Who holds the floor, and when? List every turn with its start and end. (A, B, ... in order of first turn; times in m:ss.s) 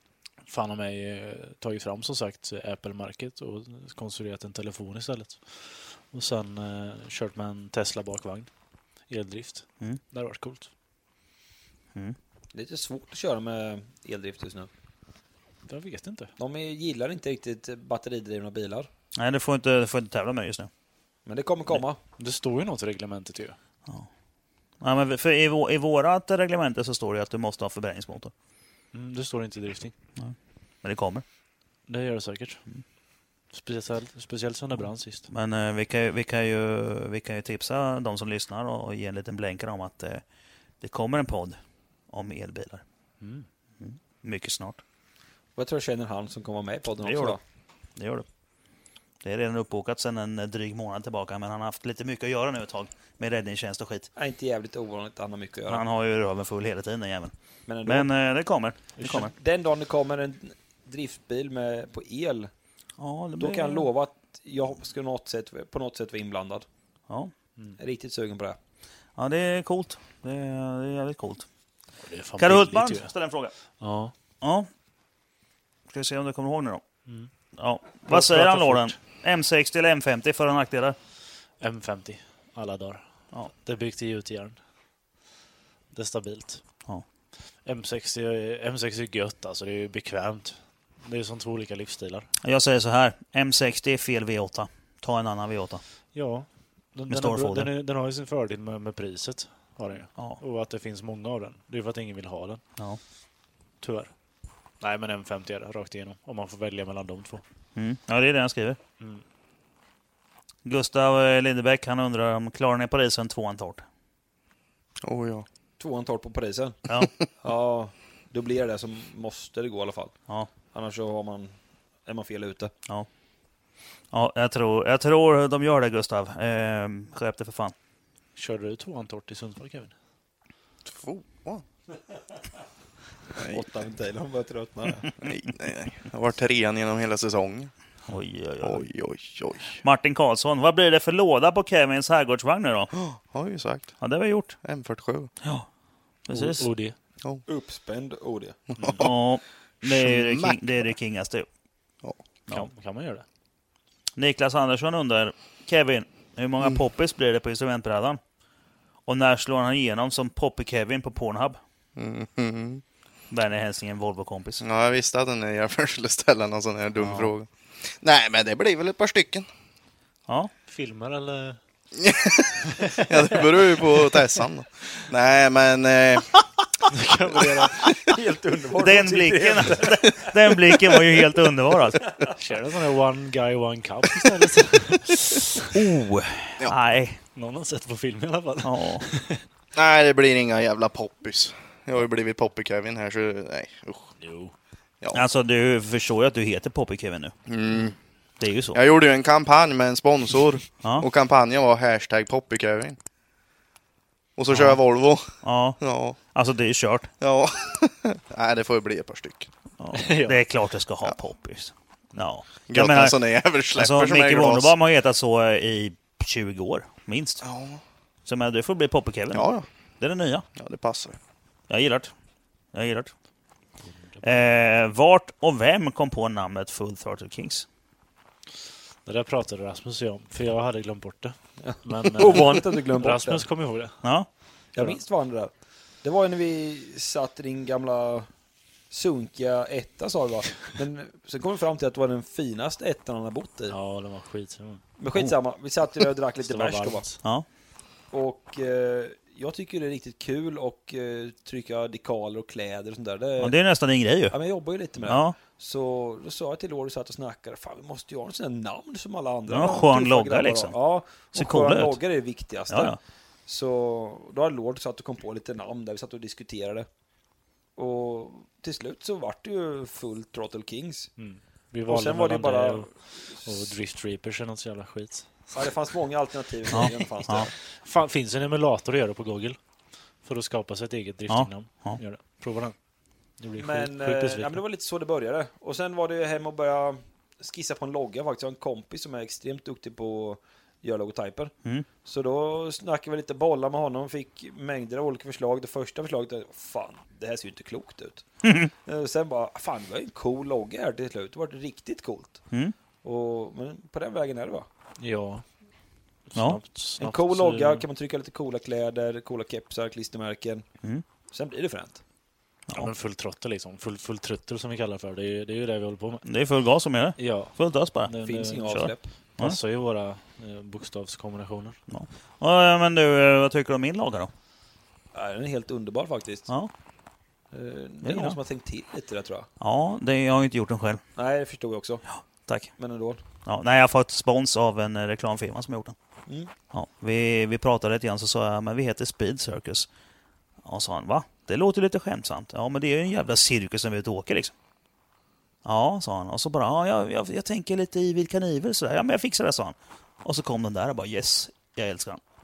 0:00.4-0:08.5 A
0:09.1-0:10.7 A
0:12.5-0:14.7 B
0:15.7-0:16.3 A
0:16.4-0:18.9 B
0:19.2-0:20.7 C
0:21.2-0:22.0 B
0:22.2-0:23.6 A
0:24.8-0:28.3 C
0:28.9-0:29.9 A
0:30.2-0:31.2 C
0:31.9-0:32.6 A
0:33.5-0:35.3 A
0:35.3-0:40.2 C
0:40.8-0:41.6 C
0:42.1-0:42.8 C
0:43.2-0:43.5 A
0:43.8-0:44.8 C
0:45.6-0:47.4 B
0:47.0-0:47.4 C
0:48.0-0:48.2 C
0:49.2-0:54.1 C
0:54.2-0:55.8 B
0:55.7-0:57.3 C
0:57.7-0:58.1 B
0:57.8-0:59.3 C
0:59.0-0:59.3 A
0:59.0-1:02.5 B
1:03.0-1:03.9 C
1:03.4-1:06.6 B
1:07.8-1:08.6 B
1:09.2-1:11.4 C
1:12.0-1:13.1 A
1:12.4-1:13.5 C
1:13.8-1:14.1 A
1:14.4-1:14.7 C
1:15.9-1:16.8 C
1:17.6-1:21.0 C
1:18.0-1:19.0 A
1:21.6-1:24.6 A
1:25.9-1:26.6 A
1:27.6-1:32.3 A
1:32.4-1:35.8 C
1:36.1-1:42.6 A
1:37.1-1:37.7 C
1:40.1-1:40.4 C
1:43.8-1:44.1 A
1:44.8-1:47.4 A
1:47.8-1:48.8 C
1:50.6-1:53.8 C
1:55.0-1:55.4 D
1:55.8-1:56.8 B
1:57.4-2:00.2 B
2:00.7-2:02.7 B
2:04.1-2:07.7 C
2:08.4-2:09.9 A
2:10.8-2:11.6 D
2:13.4-2:13.6 D
2:13.5-2:15.1 B
2:15.2-2:17.7 D
2:18.1-2:18.9 C
2:18.6-2:19.8 D
2:19.8-2:22.9 C
2:22.9-2:24.0 D
2:24.0-2:24.6 C
2:24.6-2:25.3 D
2:25.4-2:25.7 C
2:26.2-2:26.7 C
2:26.3-2:26.9 A
2:27.5-2:28.6 B
2:28.7-2:29.1 D
2:28.8-2:29.1 A
2:29.0-2:31.4 C
2:29.8-2:30.9 D
2:32.5-2:33.2 A
2:34.2-2:38.2 C
2:39.1-2:41.6 C
2:42.0-2:42.8 D
2:43.3-2:44.6 C
2:44.6-2:49.5 D
2:47.0-2:47.3 C
2:50.7-2:51.6 A
2:52.0-2:56.3 D
2:52.8-2:54.1 A
2:56.9-2:57.9 A
2:58.0-3:00.3 B
2:58.8-3:02.2 C
3:02.4-3:05.7 A
3:05.7-3:07.2 C
3:07.3-3:09.4 A
3:08.6-3:09.1 C
3:09.7-3:14.1 D
3:14.2-3:14.5 A
3:15.1-3:17.3 C
3:17.5-3:18.0 D
3:18.4-3:18.8 C
3:18.7-3:23.0 D
3:24.4-3:26.2 D
3:24.5-3:24.8 C
3:25.4-3:27.1 C
3:27.2-3:29.5 D
3:29.8-3:33.2 C
3:29.9-3:30.4 A
3:32.7-3:34.7 D
3:33.7-3:37.4 C
3:37.4-3:37.8 D
3:38.2-3:40.4 C
3:39.3-3:39.6 D
3:40.6-3:41.2 D
3:41.7-3:42.1 C
3:42.7-3:43.1 C
3:43.8-3:44.2 A
3:44.2-3:47.6 C
3:49.0-3:54.2 A
3:51.6-3:53.4 B
3:54.0-3:54.3 C
3:54.7-3:55.5 B
3:56.0-3:58.3 B
3:58.9-4:03.8 B
4:03.7-4:04.8 A
4:05.0-4:07.1 B
4:06.4-4:07.2 A
4:08.1-4:13.6 B
4:13.4-4:14.4 C
4:14.3-4:26.9 B
4:15.0-4:15.4 C
4:19.5-4:22.0 C
4:22.7-4:23.0 C
4:27.8-4:31.1 B
4:31.2-4:35.7 A
4:31.8-4:33.7 B
4:35.5-4:37.5 B
4:36.7-4:39.6 A
4:36.8-4:37.5 C
4:40.2-4:42.7 A
4:41.3-4:42.0 C
4:43.4-4:44.6 A
4:43.6-4:58.2 B
4:58.4-4:58.7 C
4:58.8-5:02.4 B
5:03.0-5:04.7 B
5:05.0-5:05.4 A
5:06.3-5:07.8 A
5:06.3-5:06.6 C
5:07.0-5:10.6 B
5:11.3-5:12.0 B
5:12.7-5:16.2 A
5:16.2-5:18.1 C
5:17.2-5:18.8 A
5:18.2-5:19.0 B
5:18.7-5:19.6 C
5:19.4-5:21.8 A
5:21.9-5:24.3 C
5:25.1-5:26.5 B
5:27.5-5:29.5 B
5:28.0-5:28.4 C
5:29.6-5:31.0 C
5:31.2-5:32.0 B
5:32.1-5:32.7 C
5:32.8-5:33.2 B
5:33.4-5:35.9 C
5:36.7-5:39.9 C
5:40.6-5:44.5 C
5:45.6-5:52.2 C